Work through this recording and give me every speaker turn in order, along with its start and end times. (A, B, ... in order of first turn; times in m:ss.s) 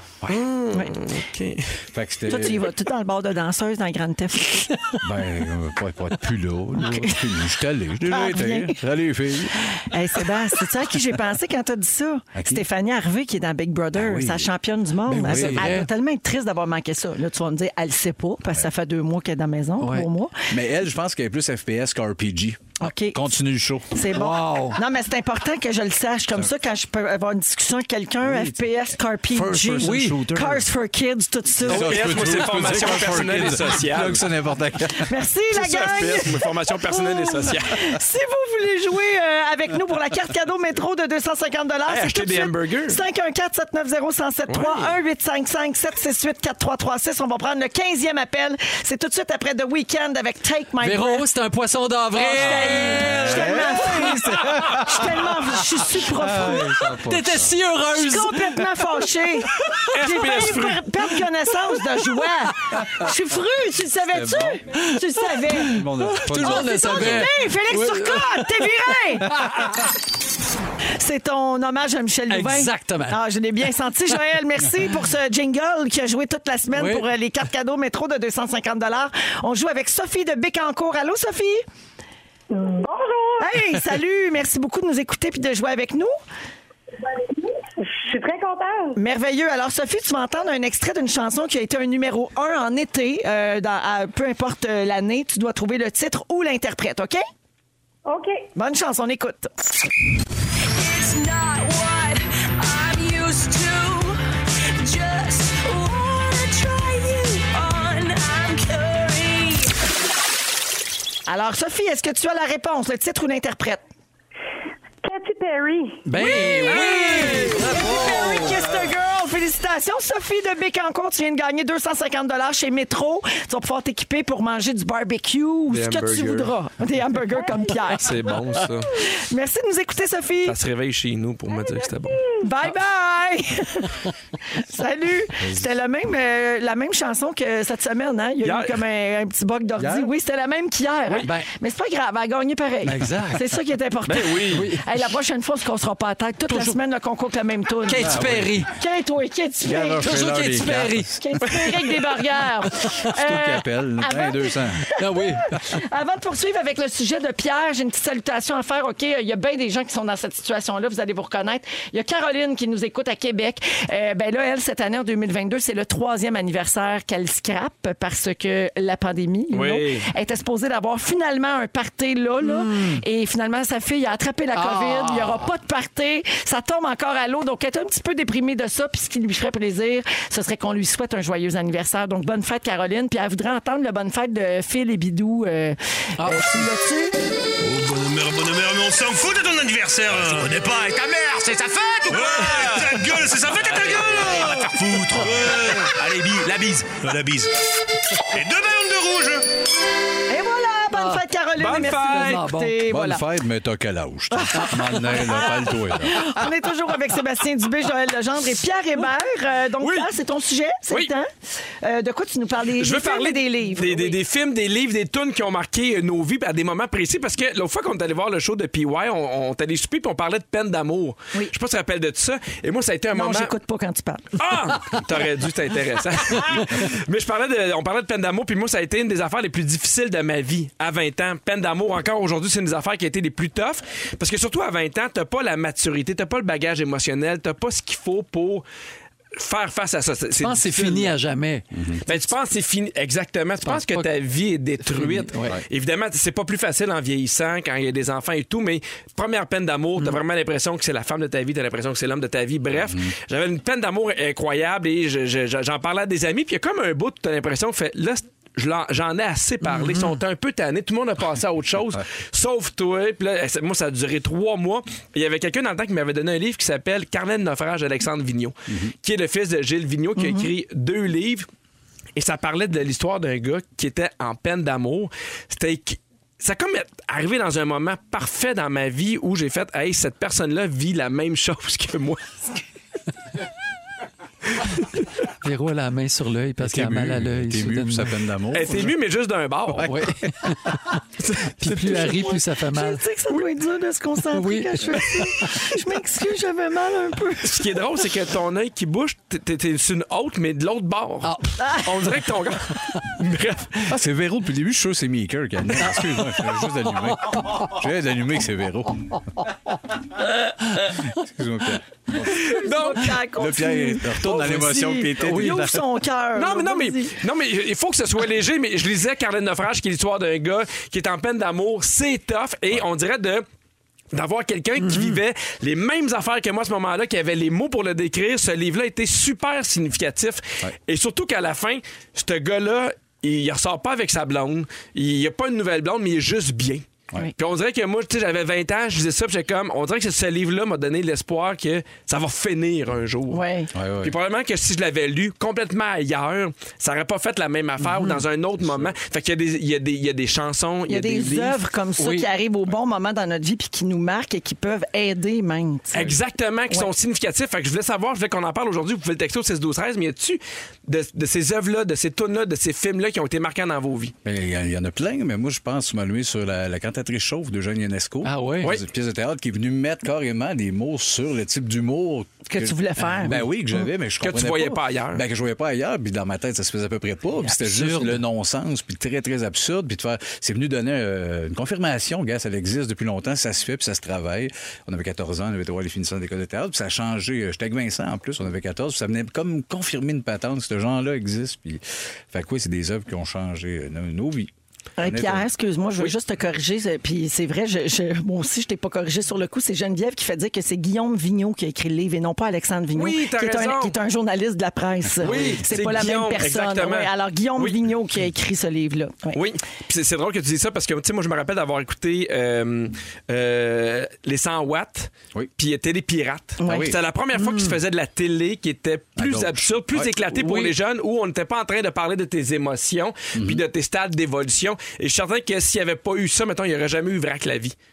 0:00.3-0:01.7 A
0:01.9-0:02.7 B
0:02.3-0:04.7 C
0:05.0-0:09.7 B
0:08.1-0:08.8 C
0:09.7-0:20.4 C
0:12.3-0:12.6 B
0:13.9-0:14.5 B
0:15.1-0:15.9 D
0:15.2-0:15.8 B
0:19.8-0:20.1 D
0:20.5-0:24.0 B
0:22.8-0:23.3 C
0:23.9-0:32.2 C
0:24.1-0:24.8 D
0:28.2-0:28.6 B
0:29.3-0:30.7 B
0:29.7-0:30.3 D
0:31.6-0:35.1 B
0:31.7-0:34.2 A
0:35.0-0:51.2 C
0:35.5-0:37.8 A
0:41.9-0:43.0 A
0:44.5-0:44.9 A
0:50.8-0:54.4 D
0:52.1-0:56.9 C
0:52.4-0:55.3 B
0:56.0-0:57.5 B
0:56.4-0:58.7 D
0:57.9-1:05.8 C
0:59.9-1:00.9 A
1:04.1-1:04.6 B
1:05.2-1:09.9 D
1:05.6-1:07.3 B
1:06.4-1:09.3 C
1:11.0-1:21.6 C
1:12.3-1:13.2 D
1:16.7-1:17.1 D
1:22.5-1:23.5 E
1:23.4-1:26.1 C
1:27.8-1:29.0 E
1:29.0-1:37.2 C
1:38.1-1:38.4 E
1:38.6-1:39.5 C
1:40.9-1:42.0 F
1:42.6-1:43.9 F
1:44.9-1:46.6 F
1:47.6-1:49.4 F
1:51.3-1:53.8 C
1:55.0-1:56.1 E
1:56.1-1:58.4 D
1:56.2-2:08.1 C
1:56.7-1:57.4 A
2:05.7-2:06.5 A
2:07.9-2:08.9 A
2:09.0-2:10.6 C
2:10.5-2:12.2 A
2:12.4-2:30.0 C
2:15.4-2:15.7 B
2:18.4-2:18.8 A
2:19.8-2:20.1 B
2:22.9-2:23.4 D
2:23.0-2:23.2 B
2:24.1-2:24.7 A
2:24.5-2:25.0 D
2:26.5-2:26.8 D
2:27.9-2:28.7 D
2:28.0-2:28.6 B
2:29.6-2:31.2 B
2:30.0-2:32.0 D
2:31.2-2:34.6 C
2:33.0-2:34.8 B
2:35.0-2:35.6 D
2:35.5-3:07.2 C
2:49.5-2:50.1 A
2:52.4-2:53.0 D
2:54.5-2:55.5 D
3:06.2-3:06.6 D
3:07.8-3:17.5 G
3:13.6-3:14.7 A
3:18.4-3:19.4 G
3:20.3-3:23.2 C
3:20.9-3:22.8 D
3:21.6-3:22.5 A
3:22.9-3:26.2 B
3:24.3-3:31.3 C
3:29.8-3:30.1 A
3:31.8-3:34.2 C
3:32.8-3:43.5 A
3:43.1-3:44.4 C
3:44.4-3:58.6 A
3:59.4-4:01.1 A
4:00.4-4:01.7 D
4:01.7-4:02.0 B
4:02.1-4:31.5 A
4:03.6-4:04.1 D
4:04.8-4:05.6 D
4:12.7-4:13.1 B
4:19.6-4:20.1 D
4:28.7-4:28.9 B
4:30.2-4:30.5 C
4:32.2-4:42.4 A
4:45.4-4:48.2 D
4:46.6-4:49.0 B
4:48.5-4:50.0 A
4:49.7-4:50.6 B
4:49.8-4:50.8 D
4:51.2-4:52.4 A
4:51.6-4:53.0 D
4:51.9-4:57.7 C
4:54.3-4:55.6 D
4:57.4-5:03.9 A
5:01.2-5:01.6 D
5:01.6-5:01.9 C
5:03.9-5:09.2 B
5:10.8-5:12.5 B
5:12.3-5:17.2 C
5:12.4-5:13.1 A
5:13.3-5:15.9 B
5:16.4-5:23.4 A
5:24.1-5:36.8 A
5:24.8-5:25.2 D
5:37.4-5:43.4 A
5:43.3-5:43.7 C
5:43.7-5:44.2 B
5:44.0-5:51.6 A
5:48.6-5:48.9 B
5:50.9-5:56.1 C
5:52.0-5:52.3 D
5:55.9-6:04.1 A
6:04.2-6:35.5 B
6:08.2-6:08.8 D
6:12.5-6:13.4 C
6:14.2-6:15.2 A
6:17.5-6:18.2 D
6:35.0-6:49.4 C
6:42.9-6:44.0 A
6:45.2-6:47.8 A
6:49.3-7:07.8 A
6:56.6-6:56.9 C
6:56.7-6:57.0 B
6:57.4-6:57.7 D
6:59.2-7:00.2 B
7:00.3-7:00.7 D
7:03.3-7:03.6 B